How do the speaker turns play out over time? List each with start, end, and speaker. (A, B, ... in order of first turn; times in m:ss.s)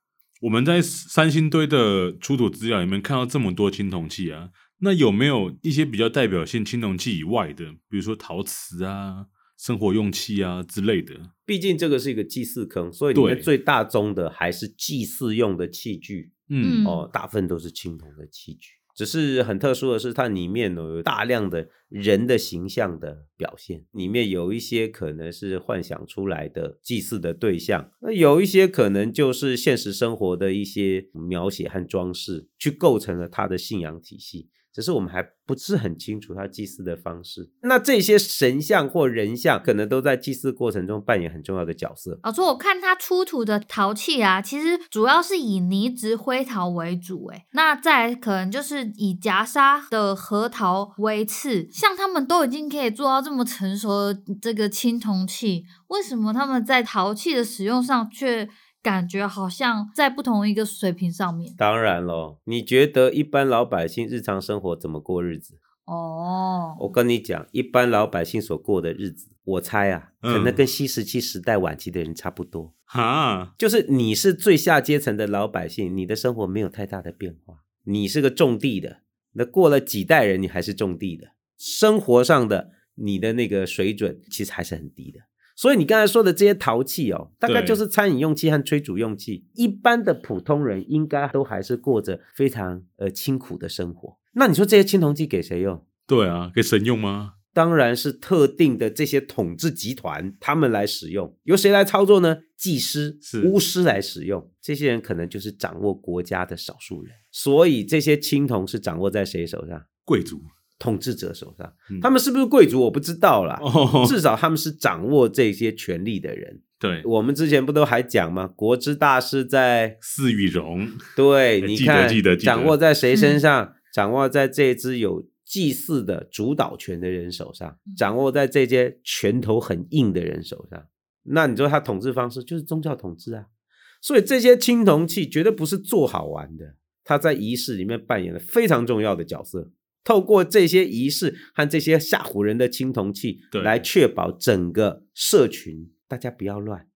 0:00.4-0:11.3 A
0:11.5-0:16.3 B
0:13.1-0:13.5 A
0:16.5-0:16.8 A
0:16.6-0:17.0 C
0:16.8-0:42.2 B
0:42.2-1:01.6 C
1:01.6-1:05.6 B
1:05.8-1:06.8 C
1:06.8-1:12.7 B
1:10.2-1:10.6 A
1:12.9-1:13.5 A
1:13.6-1:35.8 B
1:27.4-1:27.8 A
1:36.1-1:37.3 A
1:37.5-1:49.9 B
1:43.2-1:43.5 A
1:50.0-1:50.5 A
1:50.8-2:00.0 B
1:53.6-1:54.2 A
1:56.8-1:57.0 A
2:00.0-2:01.0 A
2:01.2-2:13.5 B
2:01.6-2:02.7 A
2:03.1-2:03.4 C
2:14.0-2:26.9 B
2:23.5-2:23.8 A